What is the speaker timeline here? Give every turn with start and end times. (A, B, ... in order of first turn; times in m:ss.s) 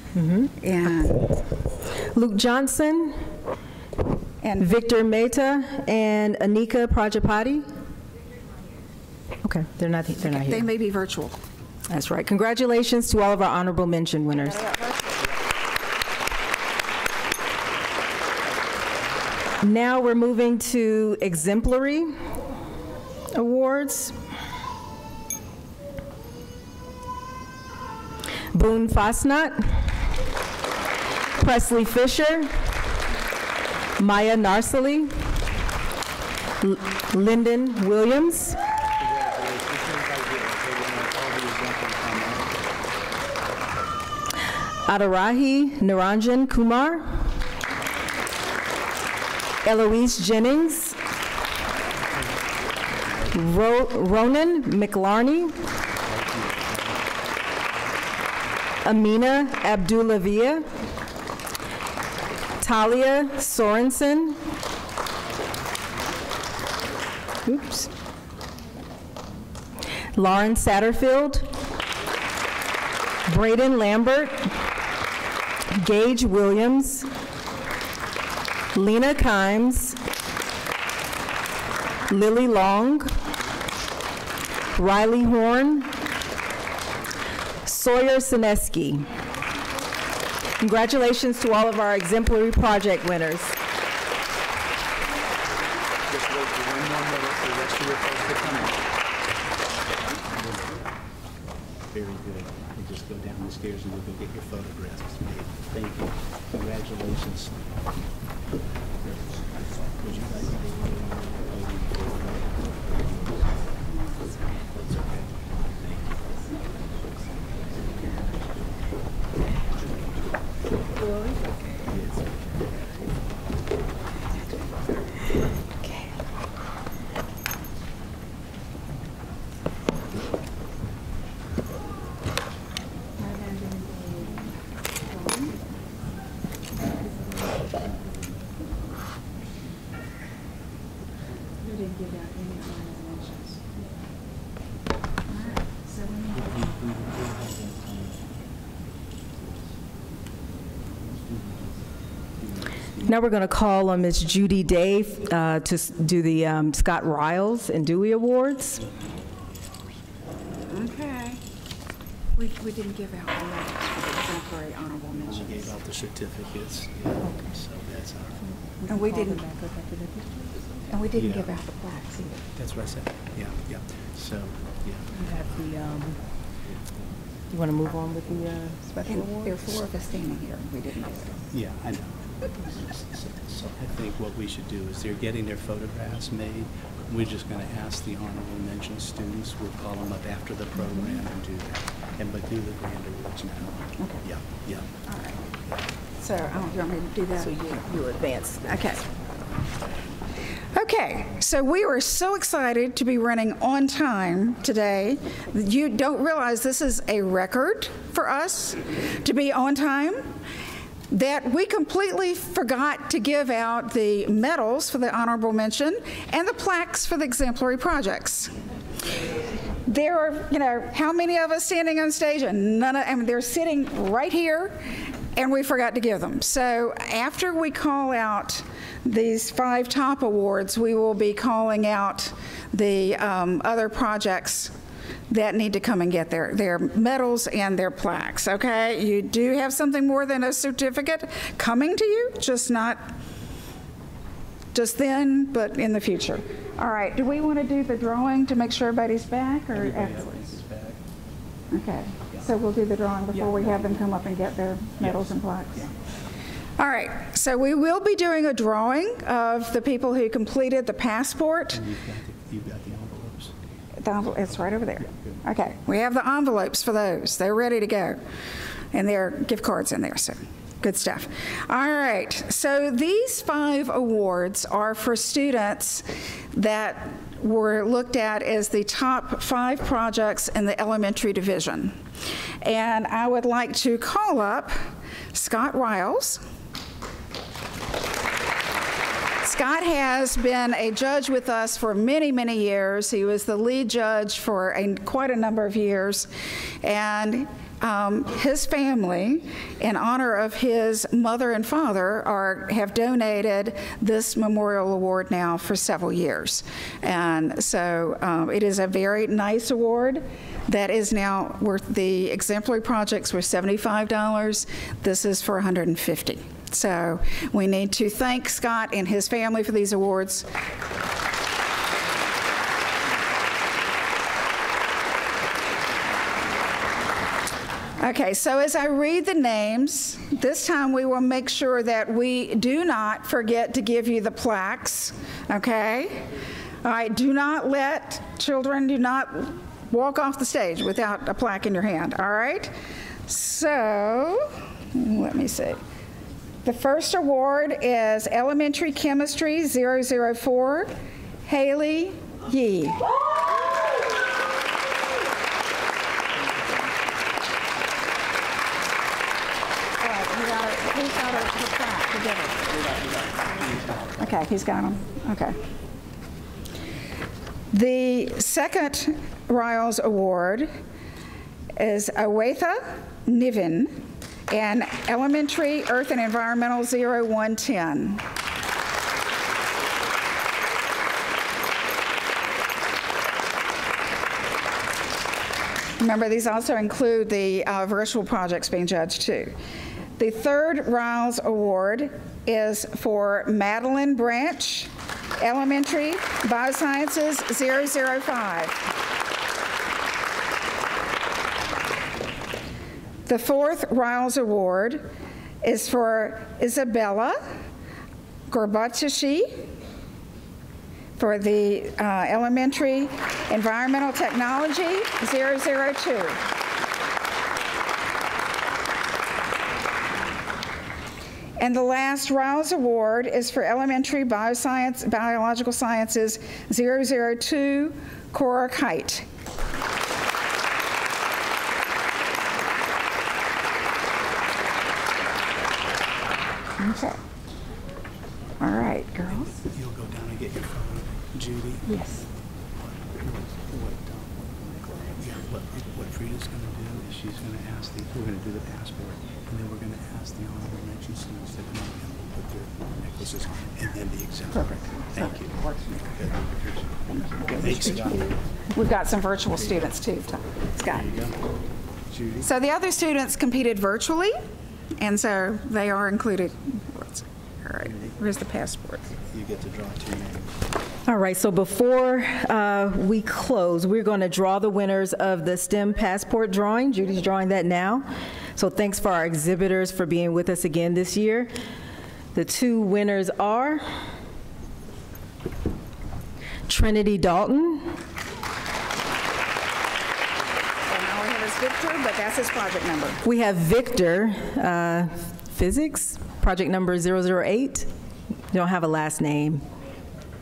0:00.2-0:01.4 A
0:00.6-0:01.2 B
0:02.0-0:03.3 A
0:04.4-0:04.8 B
0:04.6-0:07.6 A
0:09.4-0:10.7 A
0:10.3-0:11.4 B
0:11.9-0:14.6 A
0:14.4-0:15.3 B
0:19.6-0:22.2 A
0:23.3-0:24.2 A
0:28.5-0:29.9 A
0:31.4-0:32.5 A
0:34.0-0:35.2 A
0:36.6-0:38.6 A
0:39.0-0:42.5 C
0:44.9-0:47.3 A
0:49.6-0:51.0 A
0:53.3-0:55.5 A
0:58.8-1:00.7 A
1:02.6-1:04.4 A
1:07.5-1:07.9 A
1:10.1-1:11.5 A
1:13.3-1:14.6 A
1:15.7-1:17.1 A
1:18.8-1:20.0 A
1:22.1-1:23.1 A
1:24.8-1:26.0 A
1:27.6-1:29.1 A
1:30.6-1:33.6 A
1:36.2-1:38.7 C
1:42.0-1:47.5 C
1:50.0-1:50.9 C
1:51.5-1:52.4 C
2:05.8-2:06.1 A
2:13.3-2:14.3 B
2:21.7-2:23.5 B
2:25.3-2:26.6 B
2:33.0-2:38.8 A
2:40.7-2:41.4 B
2:42.4-2:45.8 B
2:45.7-2:47.1 C
2:47.2-2:47.6 A
2:47.7-2:48.1 C
2:48.5-2:50.9 A
2:48.9-2:49.4 B
2:50.9-2:52.2 B
2:52.1-2:52.4 A
2:52.7-2:55.0 C
2:55.1-2:56.2 A
2:57.5-2:59.6 A
2:59.1-3:01.5 B
3:01.6-3:02.0 C
3:03.2-3:11.7 C
3:12.2-3:13.7 C
3:15.0-3:15.4 B
3:16.2-3:17.6 B
3:17.4-3:18.8 A
3:18.7-3:19.0 B
3:20.8-3:30.3 B
3:31.1-3:38.5 B
3:39.9-3:44.8 B
3:45.4-3:54.7 B
3:55.3-4:03.1 B
4:04.7-4:10.6 B
4:10.4-4:11.0 C
4:11.7-4:15.9 B
4:16.8-4:21.9 B
4:22.0-4:23.5 C
4:24.0-4:28.2 B
4:28.9-4:42.0 B
4:42.6-4:44.8 B
4:45.3-4:46.4 B
4:49.4-4:56.3 B
4:56.8-5:20.5 B
5:28.0-5:36.3 B
5:36.8-5:42.7 B
5:43.3-5:45.8 B
5:46.6-5:50.9 B
5:51.5-5:53.0 B
6:00.0-6:03.0 B
6:04.2-6:05.6 B
6:07.7-6:10.7 B
6:11.8-6:18.2 B
6:26.0-6:29.6 B
6:30.2-6:38.8 B
6:43.3-6:45.1 B
6:45.6-6:47.4 B
6:48.5-6:49.6 B
6:51.2-6:56.4 B
7:01.6-7:09.3 B
7:16.8-7:17.2 B
7:18.6-7:19.6 B
7:19.8-7:21.6 C
7:21.9-7:22.2 A
7:25.5-7:34.6 C
7:34.7-7:36.0 B
7:37.3-7:41.2 B
7:37.6-7:38.1 C
7:42.4-7:44.4 B
7:45.0-7:49.2 B
7:49.6-7:50.0 C
7:51.1-8:01.5 A
8:02.4-8:03.8 A
8:06.7-8:08.0 A
8:10.9-8:13.2 B
8:13.2-8:17.9 A
8:18.5-8:19.6 A